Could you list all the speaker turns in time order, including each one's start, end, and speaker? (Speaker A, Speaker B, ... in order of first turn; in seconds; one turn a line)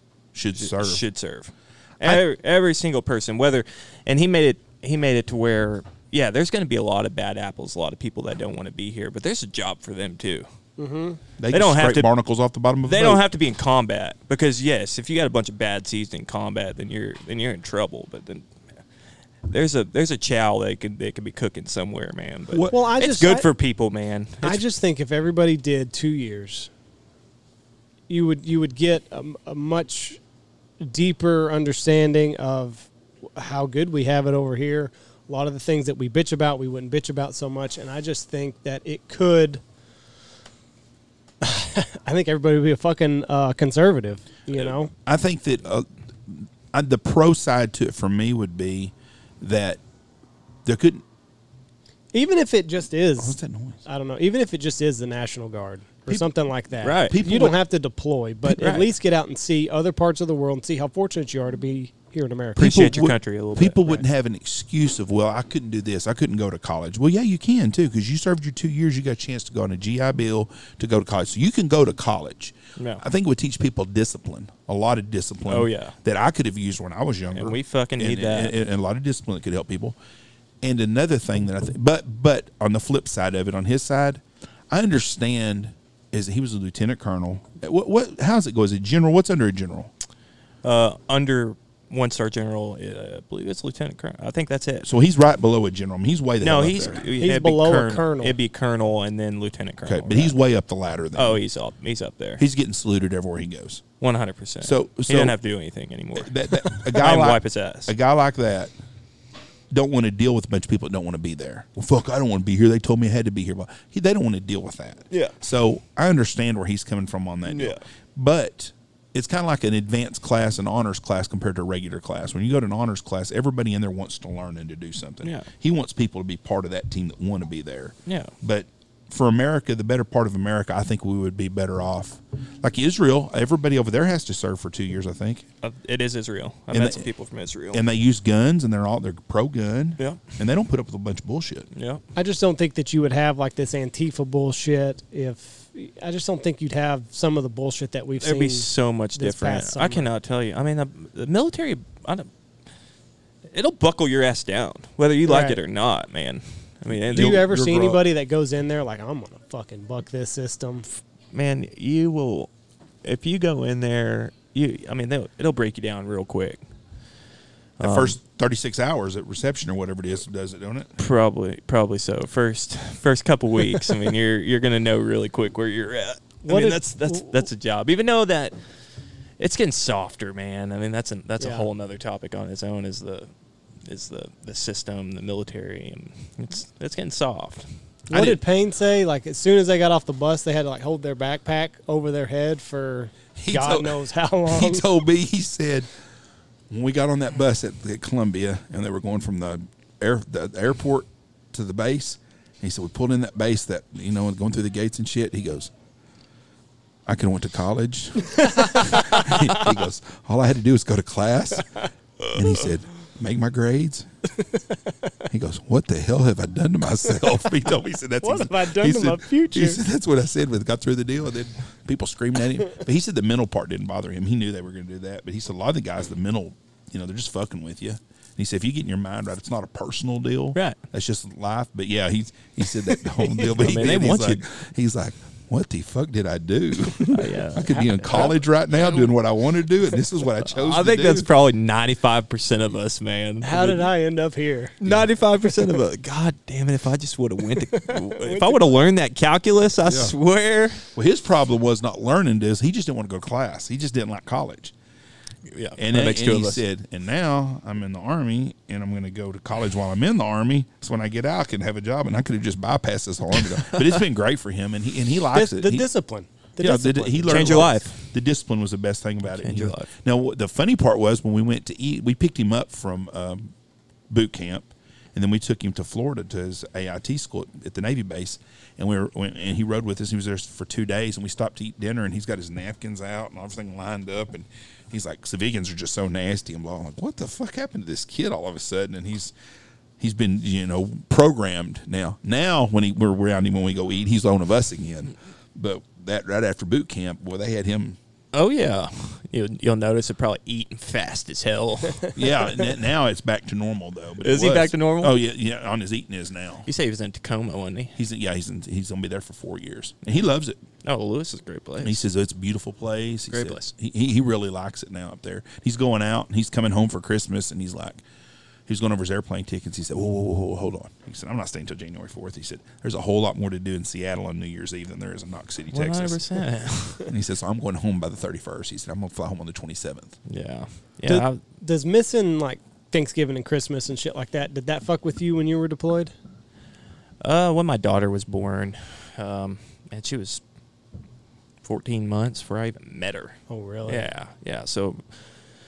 Speaker A: 0.3-1.0
Speaker B: 0.5-10.5
Speaker C: 10.8-11.2
Speaker A: 11.4-13.2
Speaker B: 11.5-12.1
Speaker B: 12.8-18.5
Speaker B: 19.5-24.6
Speaker A: 22.5-22.8
Speaker C: 22.7-23.5
Speaker C: 24.4-26.7
Speaker C: 28.1-30.2
Speaker C: 30.8-39.6
Speaker C: 41.4-44.9
Speaker A: 45.1-49.8
Speaker A: 50.6-51.0
Speaker C: 52.1-62.8
Speaker A: 53.2-53.8
Speaker B: 56.8-57.2
Speaker A: 57.0-57.6
Speaker B: 58.5-58.9
Speaker B: 62.6-64.0
Speaker A: 62.6-80.0
Speaker B: 72.8-73.0
Speaker B: 75.5-76.0
Speaker B: 77.3-78.6
Speaker A: 80.6-89.9
Speaker B: 90.6-94.9
Speaker A: 94.8-97.0
Speaker B: 96.4-100.4
Speaker C: 97.2-98.4
Speaker A: 99.8-101.4
Speaker B: 101.2-102.4
Speaker A: 102.4-103.8
Speaker B: 104.0-107.9
Speaker A: 104.6-105.4
Speaker A: 106.2-108.7
Speaker A: 109.7-135.5
Speaker B: 115.1-115.4
Speaker B: 117.5-117.8
Speaker B: 125.2-125.5
Speaker B: 128.1-128.3
Speaker B: 135.6-137.8
Speaker A: 136.7-137.1
Speaker A: 137.7-141.7
Speaker B: 140.0-140.4
Speaker B: 141.7-142.0
Speaker C: 142.2-150.1
Speaker B: 148.2-152.3
Speaker B: 153.5-157.5
Speaker C: 155.3-155.6
Speaker A: 156.9-158.0
Speaker C: 157.1-160.9
Speaker B: 161.3-162.5
Speaker B: 163.0-166.6
Speaker B: 167.8-168.2
Speaker A: 167.8-170.9
Speaker B: 171.0-178.6
Speaker C: 176.4-177.3
Speaker B: 179.4-183.3
Speaker C: 181.4-181.7
Speaker B: 183.8-187.7
Speaker A: 188.1-188.4
Speaker C: 188.1-194.9
Speaker A: 193.4-195.9
Speaker A: 196.7-205.7
Speaker A: 207.1-214.1
Speaker A: 215.3-241.3
Speaker C: 218.2-219.8
Speaker B: 233.3-234.4
Speaker B: 237.0-238.3
Speaker B: 240.4-243.8
Speaker C: 243.4-244.8
Speaker B: 244.8-250.9
Speaker C: 247.7-248.8
Speaker A: 249.8-250.2
Speaker A: 250.9-254.7
Speaker B: 255.5-256.6
Speaker A: 255.8-265.9
Speaker C: 265.3-267.7
Speaker A: 266.6-273.5
Speaker B: 267.3-268.1
Speaker B: 269.3-269.9
Speaker A: 274.1-289.4
Speaker A: 290.0-298.0
Speaker B: 298.3-302.2
Speaker A: 302.1-306.7
Speaker B: 304.2-305.2
Speaker B: 306.7-307.9
Speaker A: 307.9-310.6
Speaker B: 310.8-312.0
Speaker A: 311.8-318.0
Speaker B: 313.3-313.7
Speaker A: 318.7-326.2
Speaker B: 325.7-327.1
Speaker A: 327.0-330.2
Speaker B: 330.3-331.4
Speaker C: 331.1-336.1
Speaker B: 337.2-340.4
Speaker B: 341.6-345.3
Speaker C: 343.5-344.1